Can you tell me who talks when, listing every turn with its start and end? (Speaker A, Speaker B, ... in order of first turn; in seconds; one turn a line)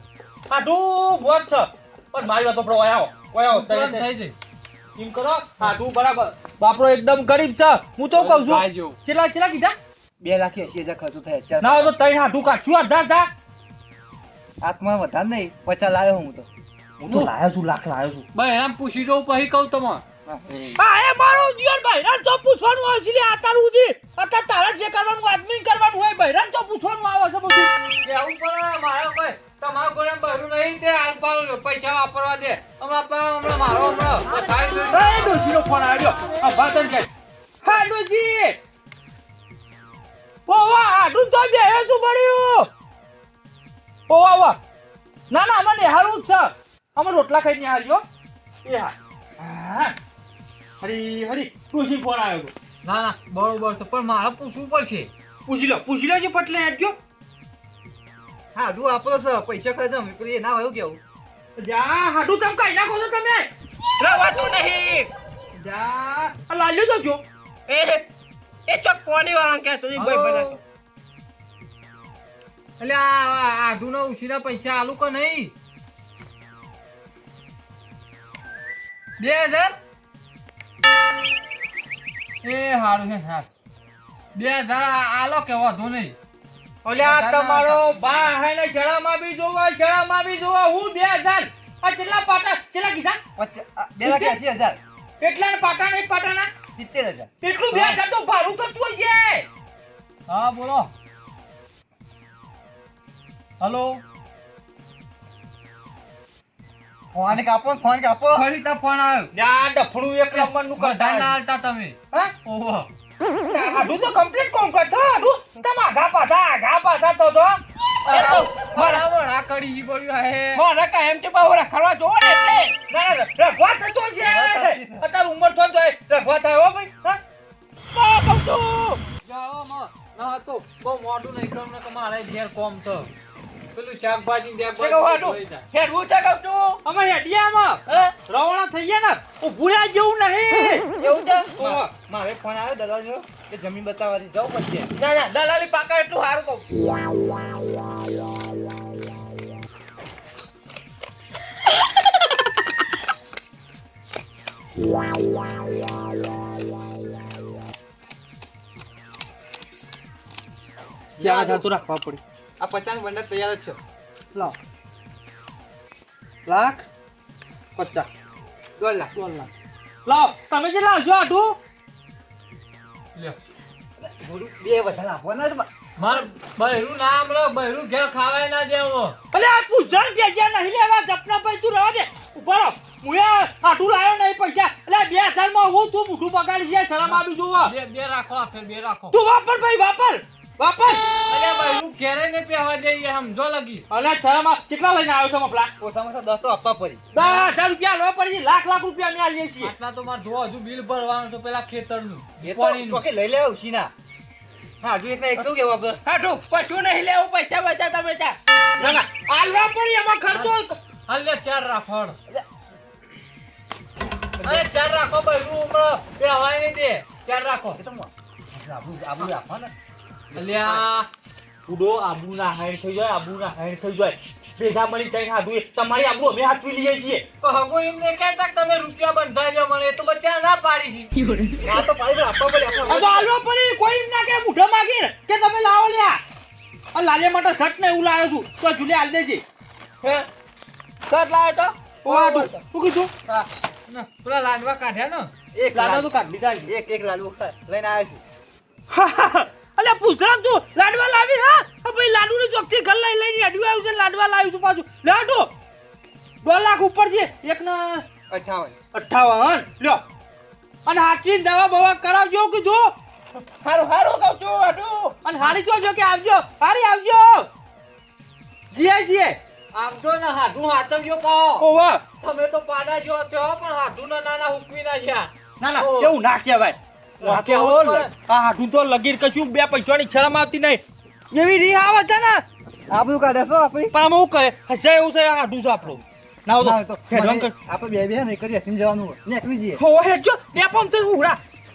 Speaker A: 0.5-4.1
Speaker B: 3.5-4.3
Speaker A: 5.0-9.8
Speaker B: 8.1-9.0
Speaker C: 10.2-11.9
Speaker A: 11.6-13.3
Speaker C: 14.6-16.5
Speaker A: 17.0-18.2
Speaker B: 17.1-17.3
Speaker B: 18.3-20.0
Speaker C: 20.3-20.8
Speaker A: 20.8-27.7
Speaker B: 28.0-35.3
Speaker A: 34.9-37.1
Speaker A: 37.6-38.6
Speaker A: 40.5-42.7
Speaker A: 44.1-44.6
Speaker A: 45.3-48.0
Speaker A: 48.6-49.9
Speaker A: 50.8-52.5
Speaker B: 52.8-55.1
Speaker A: 55.5-57.0
Speaker C: 58.5-61.0
Speaker A: 61.6-63.5
Speaker D: 64.0-65.1
Speaker A: 65.5-67.2
Speaker D: 67.7-68.0
Speaker D: 68.7-70.6
Speaker A: 69.9-70.5
Speaker B: 72.8-75.5
Speaker D: 79.2-79.7
Speaker B: 82.4-83.5
Speaker B: 84.3-86.2
Speaker A: 86.8-93.2
Speaker B: 87.0-87.8
Speaker C: 93.3-94.8
Speaker A: 94.0-94.3
Speaker A: 95.2-96.5
Speaker C: 96.8-97.3
Speaker A: 97.4-99.5
Speaker B: 97.7-98.0
Speaker B: 100.3-100.9
Speaker B: 103.6-104.0
Speaker C: 107.1-108.5
Speaker B: 108.3-109.3
Speaker A: 109.3-111.4
Speaker B: 110.3-112.9
Speaker A: 113.5-117.6
Speaker B: 118.0-120.6
Speaker D: 118.1-119.0
Speaker D: 120.5-122.7
Speaker A: 122.9-127.2
Speaker C: 124.2-125.1
Speaker D: 127.9-129.0
Speaker B: 129.2-133.1
Speaker B: 133.7-135.6
Speaker D: 134.8-136.8
Speaker A: 136.8-140.8
Speaker D: 137.9-138.1
Speaker D: 141.0-141.5
Speaker A: 141.6-141.9
Speaker C: 141.6-144.9
Speaker D: 145.0-146.6
Speaker C: 161.2-161.7
Speaker A: 161.2-162.2
Speaker C: 162.6-163.8
Speaker A: 166.5-166.8
Speaker A: 167.8-168.1
Speaker C: 168.8-169.1
Speaker A: 169.1-169.5
Speaker A: 170.0-171.6
Speaker C: 174.0-175.7
Speaker B: 176.0-179.2
Speaker A: 179.3-187.7
Speaker B: 187.0-189.2
Speaker A: 189.1-191.1
Speaker B: 191.3-193.8
Speaker A: 193.9-195.7
Speaker C: 195.8-197.0
Speaker A: 197.1-199.7
Speaker B: 197.2-197.5
Speaker B: 199.6-203.0
Speaker C: 202.4-203.9
Speaker C: 204.8-206.0
Speaker D: 206.1-208.4
Speaker A: 208.8-210.8
Speaker B: 211.1-212.2
Speaker B: 214.4-217.8
Speaker C: 217.8-219.7
Speaker B: 220.3-221.1
Speaker A: 221.7-227.2
Speaker B: 227.4-231.1
Speaker D: 231.2-231.8
Speaker C: 231.6-233.3
Speaker A: 232.9-236.2
Speaker A: 236.9-239.4
Speaker D: 240.0-240.3
Speaker D: 241.1-241.7
Speaker A: 242.0-243.1
Speaker B: 243.3-245.3
Speaker C: 245.5-246.1
Speaker A: 245.7-246.7
Speaker C: 246.6-248.2
Speaker A: 248.9-255.5
Speaker A: 256.4-258.1
Speaker C: 258.3-258.8
Speaker A: 258.9-260.0
Speaker A: 260.8-262.9
Speaker D: 263.6-265.5
Speaker A: 265.2-267.5
Speaker A: 268.7-269.4
Speaker B: 269.7-271.7
Speaker A: 271.6-272.0
Speaker B: 272.2-276.1
Speaker A: 275.6-282.4
Speaker B: 277.2-278.1
Speaker C: 277.3-278.1
Speaker C: 282.9-283.9
Speaker A: 283.9-287.5
Speaker C: 286.6-289.8
Speaker A: 289.8-291.4